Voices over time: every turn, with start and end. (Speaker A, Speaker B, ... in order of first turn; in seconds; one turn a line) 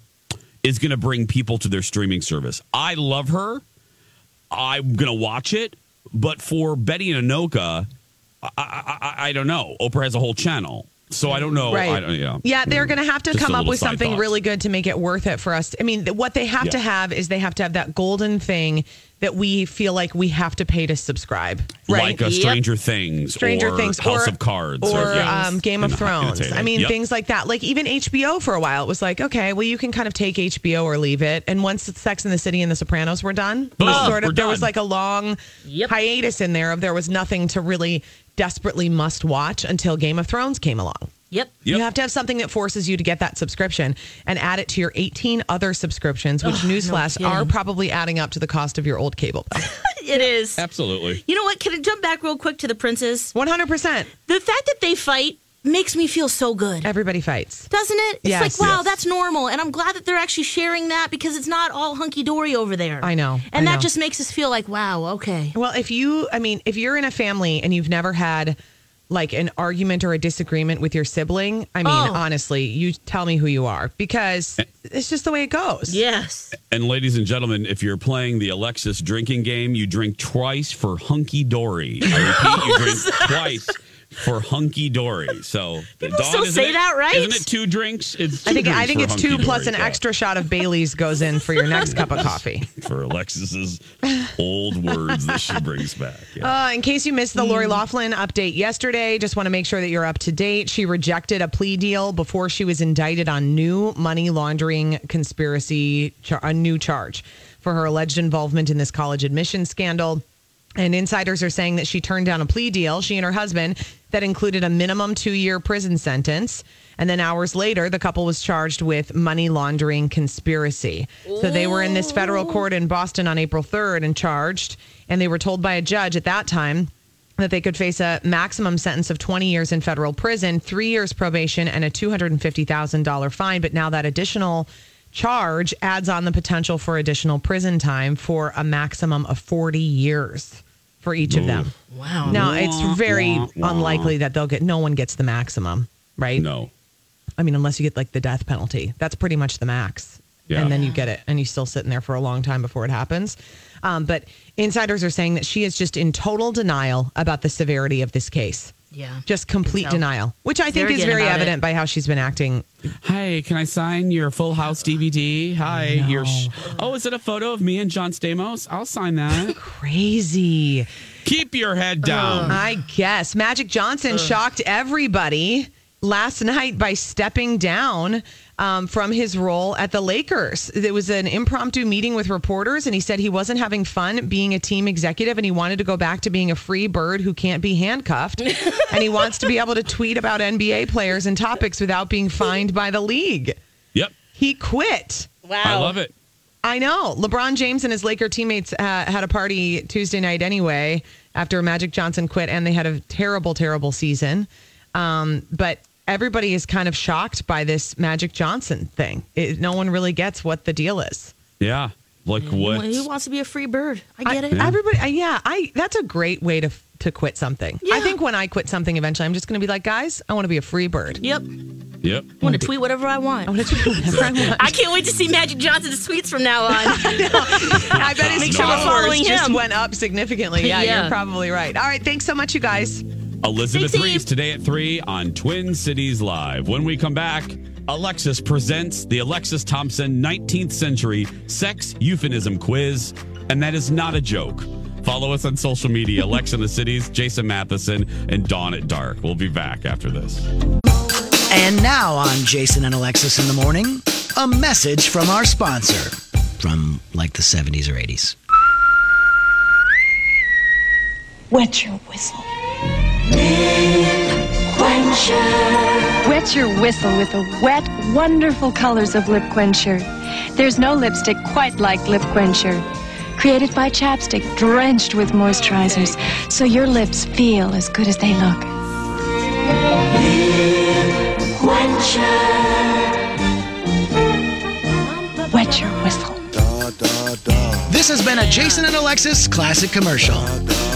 Speaker A: 0.6-3.6
Speaker A: 4.5-7.9
Speaker A: 8.4-14.3
Speaker B: 11.7-22.2
Speaker A: 21.9-26.9
Speaker C: 22.2-22.6
Speaker B: 23.4-41.1
Speaker C: 24.8-25.6
Speaker A: 33.8-34.7
Speaker C: 33.8-34.2
Speaker C: 35.6-35.9
Speaker C: 41.3-41.6
Speaker B: 41.6-49.7
Speaker C: 46.4-47.5
Speaker C: 49.6-50.6
Speaker A: 50.6-51.2
Speaker C: 51.2-53.3
Speaker B: 53.3-54.1
Speaker C: 54.3-56.9
Speaker B: 56.8-57.7
Speaker C: 57.7-65.5
Speaker B: 58.2-58.9
Speaker B: 63.0-63.9
Speaker B: 65.5-68.6
Speaker B: 69.1-76.0
Speaker C: 71.8-72.2
Speaker C: 75.9-76.5
Speaker A: 76.6-90.0
Speaker C: 82.0-83.7
Speaker C: 86.0-87.5
Speaker B: 88.5-92.7
Speaker A: 91.8-93.8
Speaker A: 94.4-96.5
Speaker B: 94.9-95.6
Speaker B: 96.4-110.2
Speaker C: 97.3-97.8
Speaker B: 110.8-141.7
Speaker C: 121.2-122.7
Speaker A: 141.3-141.7
Speaker C: 141.9-142.4
Speaker A: 142.2-144.1
Speaker B: 142.2-146.4
Speaker A: 146.3-146.7
Speaker B: 147.4-158.7
Speaker A: 150.5-150.7
Speaker C: 150.5-151.0
Speaker C: 158.9-160.0
Speaker B: 159.2-162.7
Speaker C: 160.7-161.6
Speaker A: 163.0-169.6
Speaker B: 165.9-166.5
Speaker B: 169.4-170.9
Speaker A: 171.2-172.6
Speaker C: 172.0-172.6
Speaker B: 172.3-193.6
Speaker C: 188.5-189.2
Speaker B: 194.3-195.3
Speaker C: 195.4-195.9
Speaker A: 195.6-196.1
Speaker B: 196.6-211.3
Speaker A: 211.6-213.1
Speaker C: 212.4-214.7
Speaker B: 214.2-221.2
Speaker C: 217.8-218.2
Speaker C: 221.2-221.5
Speaker A: 222.0-222.4
Speaker C: 222.4-229.6
Speaker B: 222.4-222.7
Speaker B: 223.4-224.7
Speaker A: 224.1-224.5
Speaker B: 226.7-233.0
Speaker A: 227.7-229.1
Speaker C: 230.6-231.2
Speaker A: 233.4-250.5
Speaker C: 233.7-234.3
Speaker D: 251.5-258.4
Speaker E: 261.5-262.5
Speaker E: 263.5-264.0
Speaker E: 264.7-272.8
Speaker E: 273.4-278.7
Speaker C: 275.7-276.1
Speaker E: 281.6-282.4
Speaker E: 285.5-286.4
Speaker D: 287.9-290.5
Speaker C: 288.4-288.8